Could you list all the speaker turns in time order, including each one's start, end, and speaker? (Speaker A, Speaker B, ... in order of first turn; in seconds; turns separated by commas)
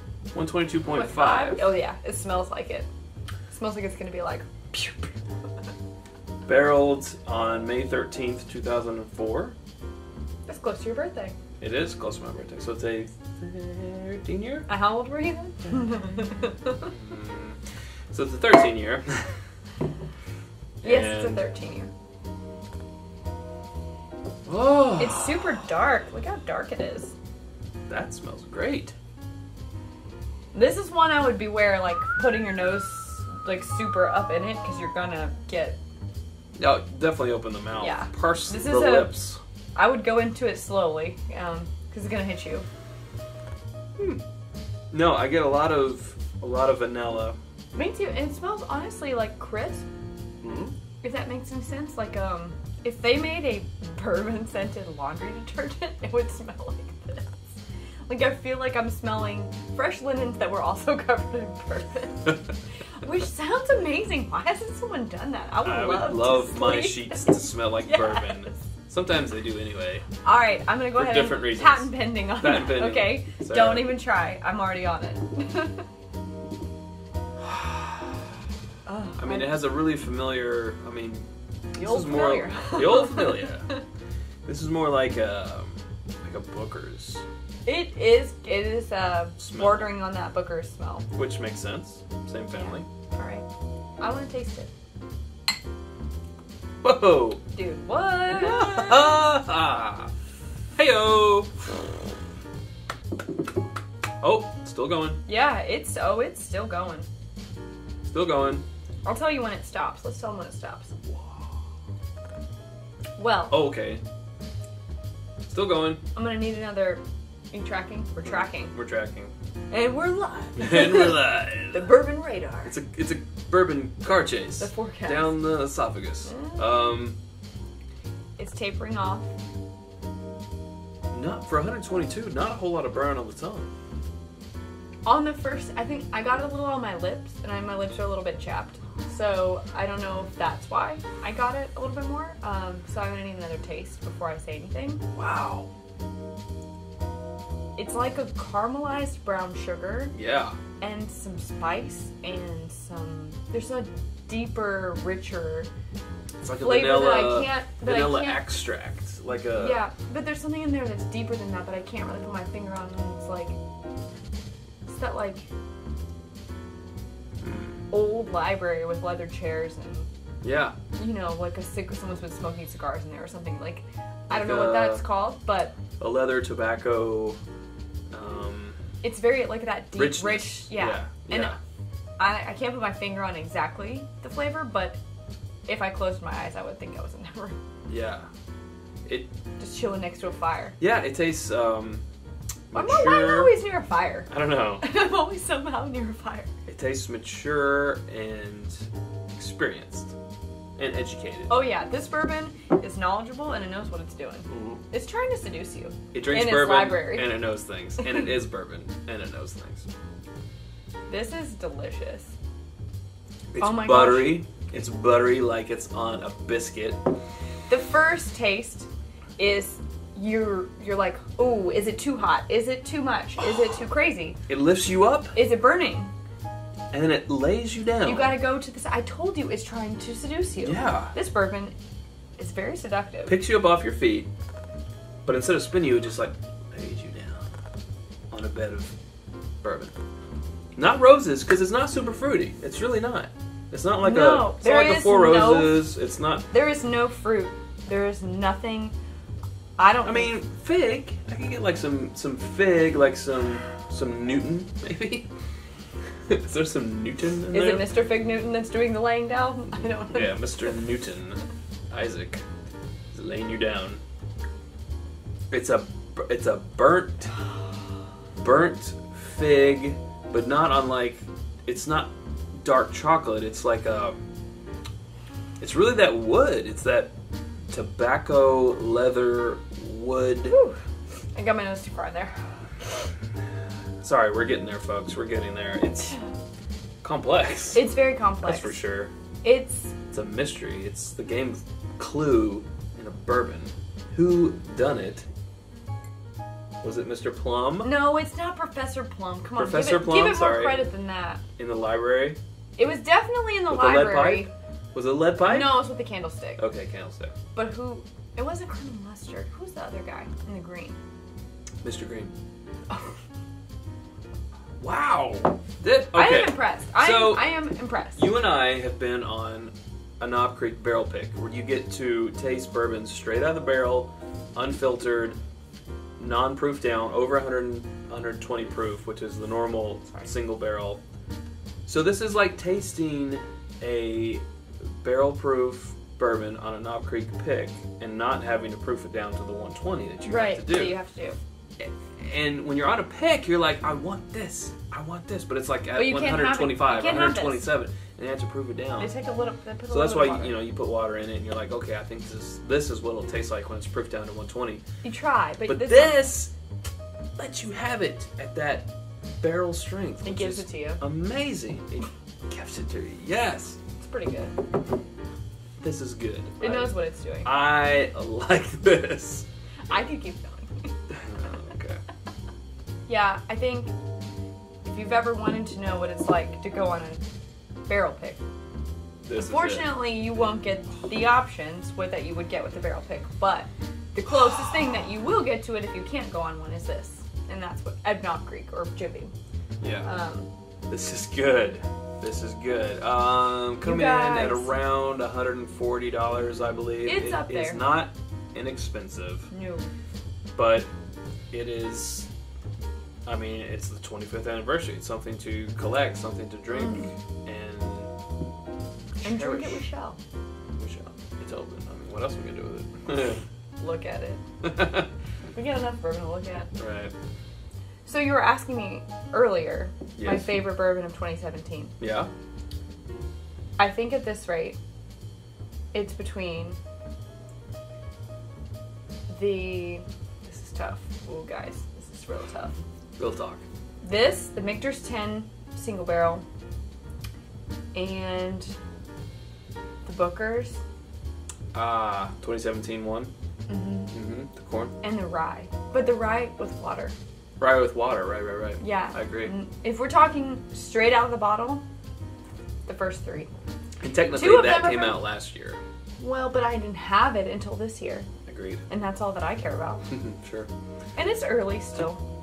Speaker A: 0.3-1.7, Speaker B: 0.9-2.9, Speaker B: 3.5-5.1, Speaker A: 6.5-9.6, Speaker B: 10.5-11.3, Speaker A: 11.6-14.7, Speaker B: 14.7-16.9, Speaker A: 16.8-17.6, Speaker A: 18.1-19.3, Speaker A: 20.8-21.4, Speaker B: 20.8-21.9, Speaker A: 24.4-25.6, Speaker B: 25.0-27.1, Speaker A: 27.9-28.9, Speaker B: 30.5-35.8, Speaker A: 36.6-39.4, Speaker B: 37.8-39.2, Speaker B: 39.8-42.7, Speaker A: 44.0-44.2, Speaker A: 44.9-47.4, Speaker B: 47.8-49.8, Speaker A: 50.4-50.7, Speaker B: 51.0-57.6, Speaker B: 58.1-62.5, Speaker B: 63.0-68.6, Speaker A: 65.6-70.1, Speaker B: 70.2-75.8, Speaker A: 70.9-74.0, Speaker B: 78.8-79.5, Speaker A: 79.2-83.7, Speaker B: 81.8-83.8, Speaker A: 84.5-87.2, Speaker B: 87.7-91.1, Speaker A: 89.4-89.9, Speaker A: 91.1-92.8, Speaker B: 92.5-93.5, Speaker B: 94.0-94.7, Speaker A: 96.8-97.4, Speaker B: 97.5-99.1, Speaker A: 98.3-100.1, Speaker A: 100.8-101.6, Speaker A: 104.2-105.2, Speaker B: 105.2-107.1, Speaker A: 108.0-108.6, Speaker B: 109.0-110.9, Speaker A: 111.1-111.6, Speaker B: 113.2-113.6, Speaker A: 113.5-114.0, Speaker A: 115.5-116.0, Speaker B: 116.1-118.7, Speaker A: 118.2-119.3, Speaker B: 119.7-122.7, Speaker A: 120.6-121.9, Speaker A: 122.6-127.2, Speaker B: 124.6-125.4, Speaker B: 126.2-126.7, Speaker B: 128.4-129.3, Speaker A: 131.1-133.7, Speaker B: 135.0-145.0, Speaker A: 145.1-145.7, Speaker B: 147.8-150.1, Speaker A: 150.1-150.6, Speaker B: 150.8-155.7, Speaker A: 156.4-159.8, Speaker B: 156.6-158.4, Speaker B: 159.5-163.6, Speaker B: 164.8-165.5, Speaker A: 167.4-167.8, Speaker B: 167.9-170.1, Speaker A: 170.4-170.8, Speaker B: 171.0-175.8, Speaker A: 174.3-175.0, Speaker A: 176.0-177.4, Speaker A: 178.1-178.8, Speaker B: 179.0-181.6, Speaker A: 179.9-181.6, Speaker B: 182.2-185.0, Speaker B: 185.7-187.6, Speaker A: 187.9-188.3, Speaker B: 189.6-190.8, Speaker A: 190.8-192.0, Speaker A: 192.7-193.5, Speaker B: 192.7-194.3, Speaker A: 194.3-194.8, Speaker B: 194.8-196.5, Speaker A: 196.7-200.1, Speaker A: 200.8-201.6, Speaker B: 201.5-207.4, Speaker A: 204.5-204.8, Speaker A: 206.1-209.9, Speaker B: 208.0-208.3, Speaker B: 211.1-212.3, Speaker A: 213.5-217.0, Speaker B: 213.6-214.4, Speaker B: 217.7-224.4, Speaker A: 224.5-225.3, Speaker B: 225.3-226.1, Speaker A: 226.9-228.4, Speaker B: 228.0-231.7, Speaker A: 230.6-231.1, Speaker B: 232.4-233.4, Speaker A: 233.3-234.3, Speaker A: 235.2-237.4, Speaker A: 238.3-238.9, Speaker A: 239.6-239.9, Speaker A: 240.8-246.5, Speaker B: 244.0-245.9, Speaker B: 246.5-248.9, Speaker B: 249.8-250.3, Speaker A: 250.0-255.3, Speaker A: 256.3-257.9, Speaker B: 257.5-260.7, Speaker A: 260.1-262.4, Speaker A: 263.1-264.0, Speaker A: 265.5-267.3, Speaker A: 268.4-274.2, Speaker A: 275.6-277.1, Speaker A: 277.7-280.6, Speaker B: 280.5-280.8, Speaker B: 281.3-282.5, Speaker A: 284.0-286.2, Speaker A: 287.0-289.1, Speaker B: 287.7-288.8, Speaker B: 289.4-289.9, Speaker A: 290.1-295.3, Speaker A: 296.8-297.9, Speaker B: 297.8-301.4, Speaker A: 299.6-300.9, Speaker A: 301.6-302.4, Speaker B: 302.8-304.5, Speaker A: 303.7-305.9, Speaker B: 305.4-306.6, Speaker A: 306.6-307.3, Speaker B: 307.5-311.0, Speaker A: 311.8-312.3, Speaker A: 314.8-325.4, Speaker B: 316.1-318.3, Speaker A: 326.2-331.0, Speaker A: 331.9-334.4, Speaker A: 335.0-340.9, Speaker B: 340.2-341.4, Speaker A: 341.8-349.1, Speaker B: 345.9-347.7, Speaker B: 349.0-350.6, Speaker A: 349.9-354.8, Speaker B: 355.0-356.3, Speaker A: 355.7-356.5, Speaker A: 357.4-363.8, Speaker B: 360.2-361.0, Speaker B: 364.0-364.6, Speaker A: 365.8-369.4, Speaker B: 366.6-367.5, Speaker B: 369.9-370.9, Speaker A: 371.1-372.0, Speaker B: 373.1-373.9, Speaker B: 374.8-377.2, Speaker B: 377.9-378.4, Speaker A: 379.2-380.1, Speaker B: 379.3-389.3, Speaker A: 389.8-390.1, Speaker B: 390.0-390.5, Speaker A: 390.9-399.5, Speaker B: 393.8-394.8, Speaker B: 397.0-397.8, Speaker B: 399.5-399.9, Speaker A: 400.6-400.9, Speaker A: 401.5-402.3, Speaker A: 403.2-408.1, Speaker B: 406.7-407.1, Speaker A: 409.2-409.8, Speaker B: 409.2-410.2, Speaker A: 410.8-413.4, Speaker B: 413.8-414.4, Speaker A: 414.6-415.1, Speaker B: 415.5-416.7, Speaker A: 416.8-417.1, Speaker B: 418.1-421.9, Speaker A: 420.2-420.7, Speaker A: 422.0-422.3, Speaker B: 423.8-424.8, Speaker B: 425.9-426.8, Speaker B: 429.3-432.8, Speaker A: 433.2-433.6, Speaker B: 434.0-436.4, Speaker B: 437.9-438.7, Speaker B: 440.1-440.8, Speaker A: 441.7-443.3, Speaker B: 443.7-444.1, Speaker A: 444.1-444.9, Speaker B: 445.0-447.1, Speaker A: 447.6-449.5, Speaker B: 448.8-451.8, Speaker B: 452.9-453.5, Speaker A: 454.0-455.8, Speaker B: 454.3-455.2, Speaker B: 456.2-458.3, Speaker A: 458.5-458.8, Speaker B: 458.9-460.0, Speaker A: 460.1-460.7, Speaker B: 461.2-462.2